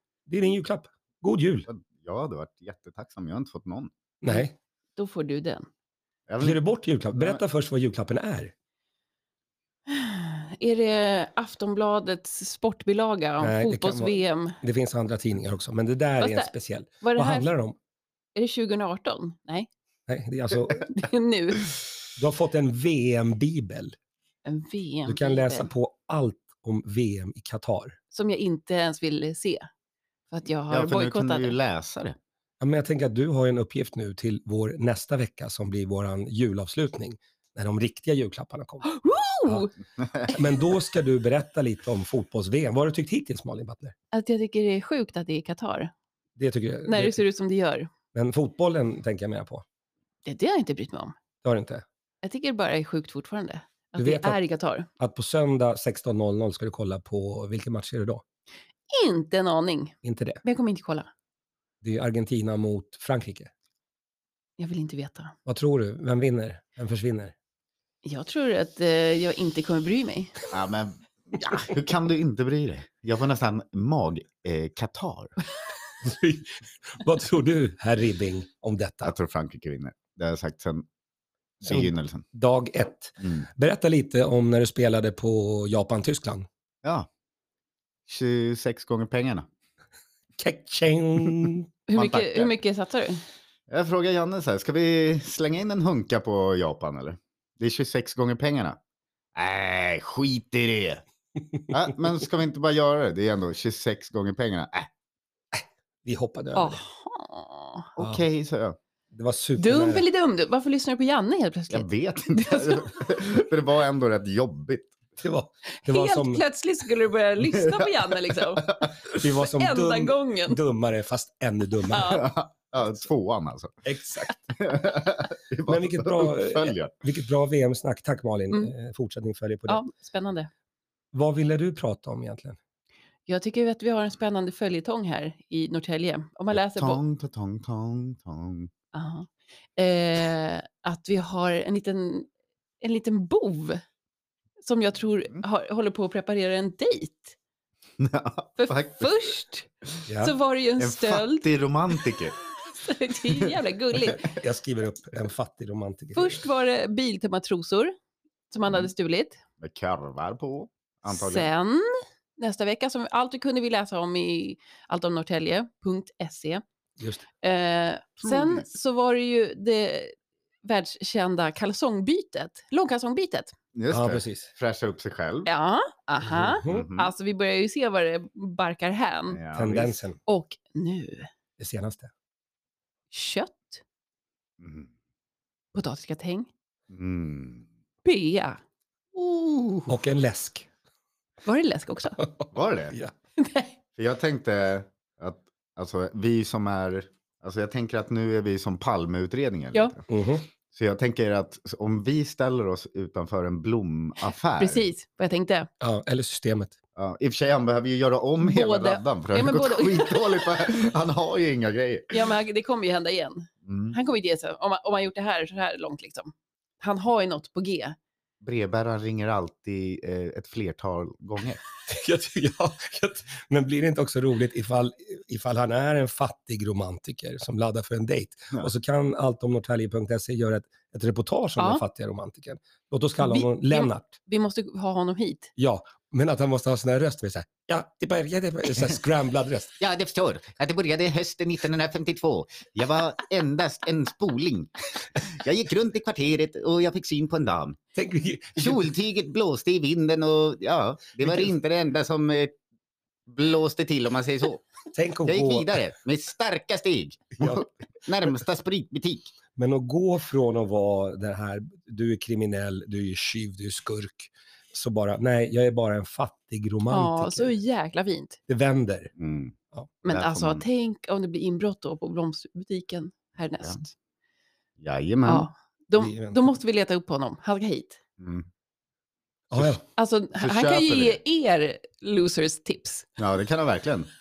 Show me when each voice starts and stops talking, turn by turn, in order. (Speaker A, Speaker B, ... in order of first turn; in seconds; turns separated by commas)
Speaker A: 0.3-1.7, Speaker B: 1.7-3.9, Speaker A: 4.2-4.5, Speaker C: 4.3-5.7, Speaker B: 6.3-6.6, Speaker A: 6.4-8.5, Speaker B: 7.1-7.4, Speaker C: 9.9-14.6, Speaker A: 13.4-17.8, Speaker C: 16.2-17.4, Speaker C: 18.3-19.7, Speaker A: 20.1-20.9, Speaker C: 20.8-21.7, Speaker A: 22.2-23.9, Speaker C: 24.4-25.7, Speaker A: 25.1-28.0, Speaker C: 28.1-29.7, Speaker C: 30.3-31.6, Speaker B: 30.7-32.2, Speaker A: 32.6-38.9, Speaker C: 38.8-39.7, Speaker B: 40.0-40.3, Speaker A: 40.3-43.9, Speaker C: 44.1-45.9, Speaker A: 46.4-47.2, Speaker C: 46.9-47.9, Speaker A: 48.1-49.6, Speaker C: 50.2-51.1, Speaker A: 51.4-51.8, Speaker C: 52.2-54.9, Speaker A: 54.0-54.4, Speaker A: 55.0-58.2, Speaker C: 58.9-61.1, Speaker A: 60.0-60.4, Speaker A: 61.8-63.5, Speaker C: 64.6-65.3, Speaker A: 65.5-67.3, Speaker C: 68.0-70.4, Speaker B: 70.5-75.3, Speaker A: 76.0-79.1, Speaker B: 79.0-80.8, Speaker B: 81.6-82.2, Speaker A: 81.6-86.5, Speaker B: 83.2-83.5, Speaker B: 88.1-89.5, Speaker A: 90.4-91.7, Speaker C: 91.9-93.2, Speaker B: 91.9-92.5, Speaker B: 93.7-98.8, Speaker B: 99.3-101.0, Speaker B: 101.7-104.9, Speaker A: 105.5-106.8, Speaker C: 106.5-107.9, Speaker B: 108.0-108.8, Speaker A: 109.1-110.0, Speaker C: 109.6-113.1, Speaker B: 111.7-115.0, Speaker A: 115.2-116.4, Speaker C: 115.8-120.6, Speaker B: 117.5-119.0, Speaker A: 119.1-122.2, Speaker C: 121.9-122.2, Speaker B: 122.0-123.8, Speaker A: 123.8-124.4, Speaker B: 124.5-126.9, Speaker A: 125.7-129.8, Speaker C: 129.7-130.5, Speaker A: 131.1-132.6, Speaker C: 133.3-137.0, Speaker B: 136.5-138.7, Speaker C: 138.9-142.3, Speaker C: 142.8-143.8, Speaker C: 144.6-147.3, Speaker B: 148.0-149.2, Speaker C: 148.6-149.7, Speaker A: 150.1-150.3, Speaker C: 150.2-151.5, Speaker B: 150.8-152.3, Speaker C: 152.6-154.4, Speaker A: 154.0-156.4, Speaker C: 156.2-157.9, Speaker C: 158.5-159.4, Speaker B: 159.6-161.5, Speaker C: 161.1-166.6, Speaker A: 167.0-167.2, Speaker C: 167.4-173.5, Speaker B: 168.2-168.7, Speaker B: 173.7-175.5, Speaker A: 173.9-174.5, Speaker C: 175.4-179.4, Speaker A: 176.2-176.9, Speaker B: 176.6-177.1, Speaker B: 179.3-179.9, Speaker A: 179.5-180.2, Speaker C: 180.2-181.3, Speaker A: 181.6-182.1, Speaker C: 183.1-183.8, Speaker B: 184.6-184.9, Speaker C: 185.7-186.5, Speaker B: 186.9-187.7, Speaker C: 188.0-188.6, Speaker B: 189.1-189.9, Speaker A: 189.9-190.7, Speaker C: 191.4-192.2, Speaker A: 192.2-193.1, Speaker B: 192.5-193.0, Speaker C: 193.4-193.7, Speaker B: 193.9-200.0, Speaker A: 200.1-200.4, Speaker B: 200.7-204.9, Speaker C: 204.6-205.7, Speaker A: 205.8-206.8, Speaker B: 206.9-212.2, Speaker C: 208.4-210.6, Speaker C: 212.1-218.0, Speaker B: 213.6-214.0, Speaker B: 218.4-221.6, Speaker A: 221.9-234.2, Speaker C: 231.6-231.8, Speaker C: 233.2-235.5, Speaker A: 235.6-239.8, Speaker B: 239.8-247.8, Speaker A: 247.9-248.9, Speaker B: 248.6-252.6, Speaker A: 251.2-251.5, Speaker B: 253.3-254.6, Speaker A: 254.9-255.8, Speaker B: 255.2-259.3, Speaker A: 257.4-257.7, Speaker A: 259.6-267.5, Speaker C: 266.9-268.4, Speaker A: 268.5-269.1, Speaker B: 269.2-270.6, Speaker C: 270.0-273.9, Speaker B: 274.8-275.5, Speaker C: 275.2-278.0, Speaker A: 276.0-276.5, Speaker B: 278.2-278.5, Speaker A: 279.5-279.8, Speaker C: 279.9-283.1, Speaker B: 280.4-281.2, Speaker B: 283.2-284.1